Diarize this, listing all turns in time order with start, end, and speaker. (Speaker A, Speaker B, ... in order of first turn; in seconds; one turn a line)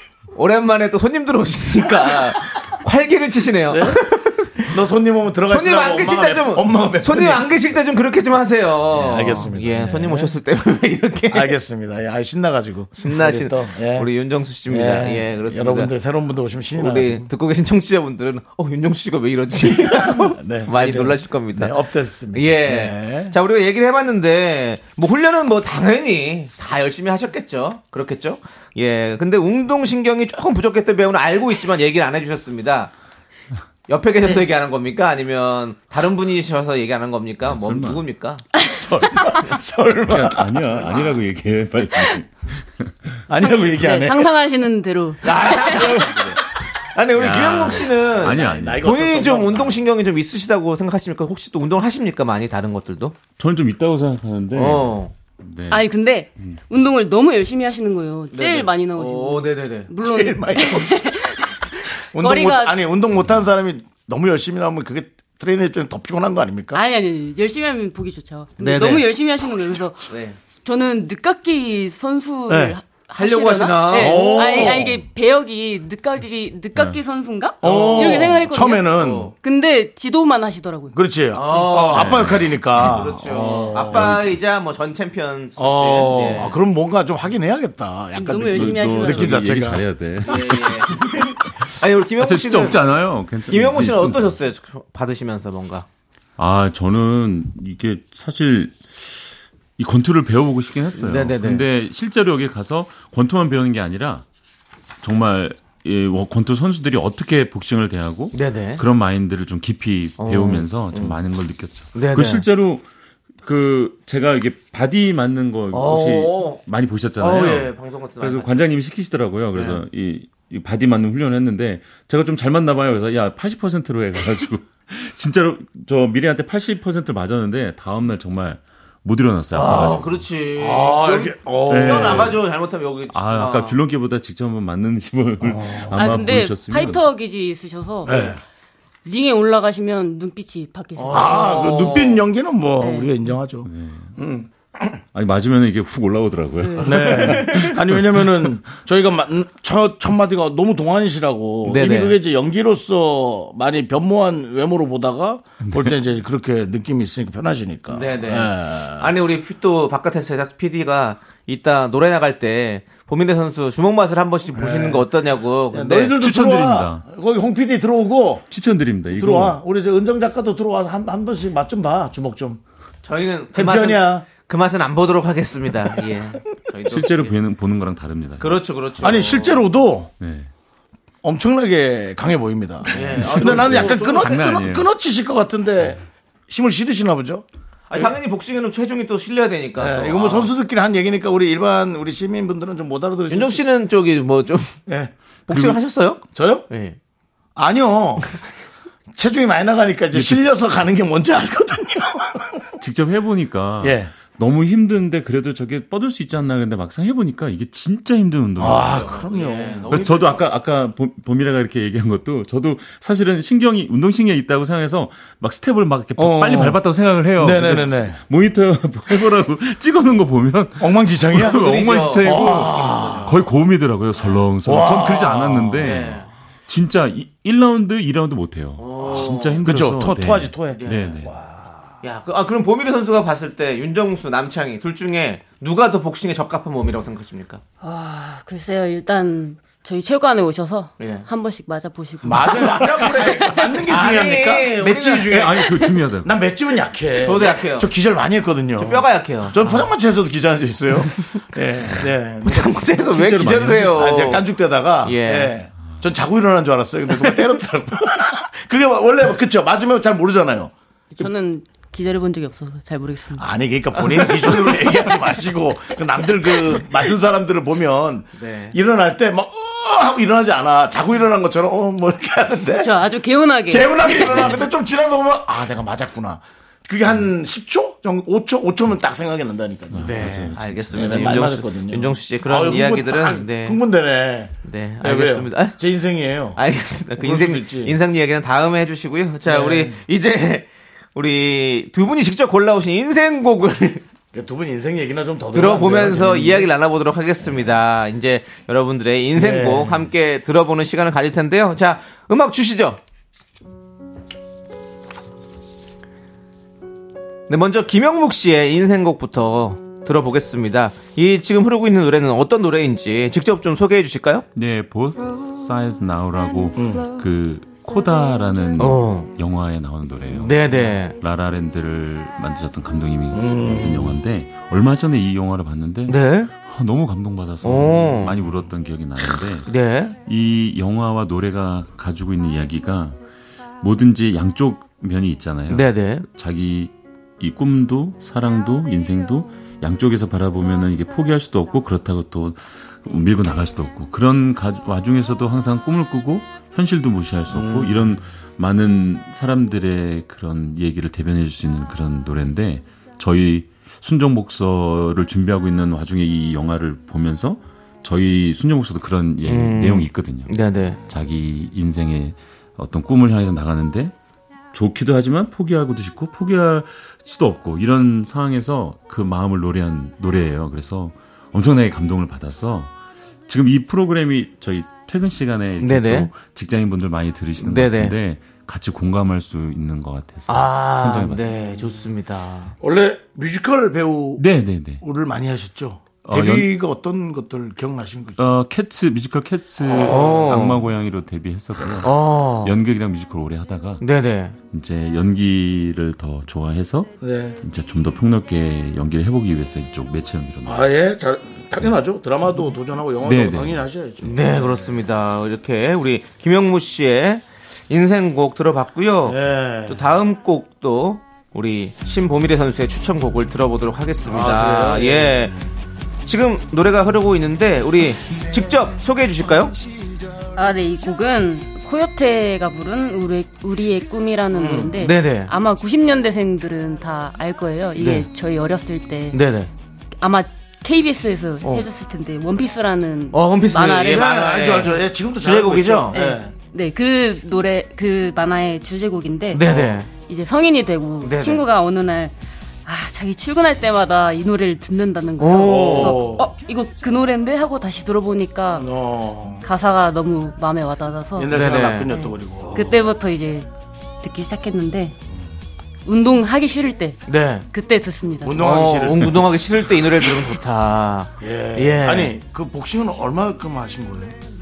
Speaker A: 0.3-4.7
Speaker B: 2.0-2.3
Speaker B: 3.7-4.0
Speaker B: 4.6-7.8
Speaker A: 5.5-11.5
Speaker B: 8.9-10.3
Speaker B: 11.3-14.1
Speaker A: 13.0-15.9
Speaker B: 14.7-17.3
Speaker A: 16.7-21.8
Speaker B: 19.6-23.3
Speaker A: 22.3-32.9
Speaker A: 33.9-38.4
Speaker C: 37.4-38.0
Speaker B: 38.6-41.1
Speaker D: 39.0-39.4
Speaker C: 40.1-42.3
Speaker B: 43.3-44.3
Speaker D: 43.4-46.0
Speaker A: 45.2-46.4
Speaker B: 45.5-46.3
Speaker A: 46.9-53.2
Speaker C: 47.1-48.9
Speaker B: 48.2-49.8
Speaker C: 53.4-56.6
Speaker A: 54.5-55.1
Speaker D: 55.7-62.8
Speaker A: 58.3-59.9
Speaker B: 60.0-61.2
Speaker B: 62.1-66.8
Speaker D: 66.7-81.0
Speaker A: 68.6-69.1
Speaker A: 70.1-70.4
Speaker B: 72.5-72.8
Speaker A: 73.1-74.8
Speaker B: 73.9-75.0
Speaker C: 76.7-77.0
Speaker B: 77.6-79.3
Speaker A: 77.6-79.3
Speaker B: 80.9-84.1
Speaker A: 81.3-86.6
Speaker C: 81.9-83.0
Speaker C: 83.9-84.3
Speaker B: 85.6-89.8
Speaker D: 88.2-89.4
Speaker C: 88.5-91.2
Speaker A: 90.2-92.8
Speaker C: 92.2-94.3
Speaker A: 93.5-95.8
Speaker C: 96.4-99.0
Speaker C: 99.8-104.2
Speaker A: 101.0-101.6
Speaker C: 105.0-112.8
Speaker A: 108.3-108.8
Speaker A: 110.2-111.2
Speaker A: 111.9-112.4
Speaker C: 113.4-130.2
Speaker A: 115.7-116.6
Speaker A: 117.2-118.6
Speaker A: 119.5-119.8
Speaker A: 129.5-133.8
Speaker B: 130.6-132.4
Speaker C: 131.7-132.4
Speaker C: 133.1-137.0
Speaker B: 135.4-136.2
Speaker D: 135.9-138.4
Speaker B: 138.0-138.4
Speaker D: 139.0-141.6
Speaker A: 141.0-142.2
Speaker B: 141.1-145.0
Speaker D: 142.8-143.2
Speaker C: 143.6-144.1
Speaker C: 145.1-148.4
Speaker D: 146.6-147.3
Speaker B: 146.8-159.1
Speaker A: 147.0-147.7
Speaker A: 151.6-152.2
Speaker C: 155.6-155.9
Speaker A: 157.9-166.1
Speaker B: 164.5-165.1
Speaker B: 165.7-168.5
Speaker C: 166.1-167.0
Speaker C: 168.5-169.6
Speaker B: 169.1-172.6
Speaker A: 173.0-177.3
Speaker B: 173.5-174.2
Speaker C: 176.9-178.6
Speaker A: 178.4-179.7
Speaker B: 179.0-180.1
Speaker C: 180.2-180.5
Speaker B: 181.2-188.1
Speaker A: 182.9-184.4
Speaker C: 183.2-184.9
Speaker A: 187.9-190.5
Speaker B: 189.8-193.6
Speaker A: 193.3-194.8
Speaker B: 194.9-195.1
Speaker A: 195.5-197.0
Speaker C: 195.5-195.8
Speaker B: 196.3-196.6
Speaker B: 197.6-198.3
Speaker B: 199.1-202.8
Speaker C: 200.1-200.4
Speaker C: 202.8-209.1
Speaker B: 203.8-204.1
Speaker B: 208.6-210.2
Speaker A: 208.6-210.4
Speaker C: 209.9-231.3
Speaker B: 216.2-216.8
Speaker B: 217.4-218.2
Speaker B: 220.8-221.7
Speaker A: 221.4-223.4
Speaker B: 222.2-223.3
Speaker B: 224.6-225.9
Speaker A: 225.8-226.3
Speaker A: 228.8-229.6
Speaker B: 229.0-231.9
Speaker A: 230.8-231.2
Speaker A: 232.0-237.6
Speaker D: 237.8-243.8
Speaker A: 241.0-241.3
Speaker B: 242.2-252.8
Speaker A: 242.3-245.6
Speaker C: 245.3-246.3
Speaker A: 247.2-247.9
Speaker A: 248.8-249.8
Speaker A: 252.4-254.4
Speaker C: 253.0-254.0
Speaker B: 253.7-260.7
Speaker A: 255.0-255.5
Speaker D: 261.1-263.5
Speaker B: 263.4-273.0
Speaker A: 268.4-268.8
Speaker D: 272.8-274.6
Speaker B: 273.7-280.3
Speaker C: 279.9-281.5
Speaker A: 280.0-283.8
Speaker B: 280.9-286.6
Speaker A: 284.6-285.8
Speaker A: 286.5-294.0
Speaker B: 287.1-287.9
Speaker B: 289.4-290.0
Speaker B: 294.3-296.7
Speaker A: 295.5-303.0
Speaker B: 299.3-300.1
Speaker A: 307.5-314.4
Speaker C: 314.5-333.2
Speaker B: 316.7-317.1
Speaker A: 318.8-319.3
Speaker A: 320.3-321.1
Speaker B: 323.3-324.2
Speaker A: 326.1-326.5
Speaker A: 327.6-328.4
Speaker A: 329.7-330.1
Speaker C: 333.8-364.1
Speaker A: 335.7-336.2
Speaker B: 347.5-348.2
Speaker A: 359.4-361.0
Speaker C: 364.7-372.9
Speaker C: 373.5-381.5
Speaker A: 375.8-376.3
Speaker A: 377.6-378.1
Speaker A: 380.5-382.7
Speaker B: 382.8-384.4
Speaker C: 384.4-385.0
Speaker B: 385.0-388.4
Speaker C: 386.2-386.7
Speaker C: 388.4-394.0
Speaker B: 389.9-390.5
Speaker A: 389.9-390.8
Speaker A: 392.0-392.7
Speaker A: 394.0-394.5
Speaker C: 394.6-400.8
Speaker B: 397.2-397.6
Speaker B: 400.6-405.0
Speaker C: 403.2-403.8
Speaker A: 404.2-415.6
Speaker B: 409.2-410.1
Speaker B: 414.2-415.6
Speaker A: 416.2-419.7
Speaker D: 420.5-429.4
Speaker B: 424.5-424.9
Speaker A: 425.0-425.5
Speaker A: 428.0-428.3
Speaker A: 429.3-429.7
Speaker D: 430.2-434.3
Speaker A: 433.3-436.4
Speaker B: 434.0-436.5
Speaker D: 436.1-442.3
Speaker A: 439.5-440.1
Speaker B: 439.6-440.0
Speaker A: 441.2-441.6
Speaker D: 442.8-448.9
Speaker A: 445.4-446.2
Speaker B: 445.6-446.5
Speaker B: 448.7-449.6
Speaker D: 449.6-453.7
Speaker B: 451.4-453.1
Speaker A: 451.5-452.1
Speaker D: 454.2-455.1
Speaker D: 456.0-458.6
Speaker A: 457.3-457.6
Speaker B: 458.4-459.5
Speaker A: 458.6-462.3
Speaker B: 461.4-464.4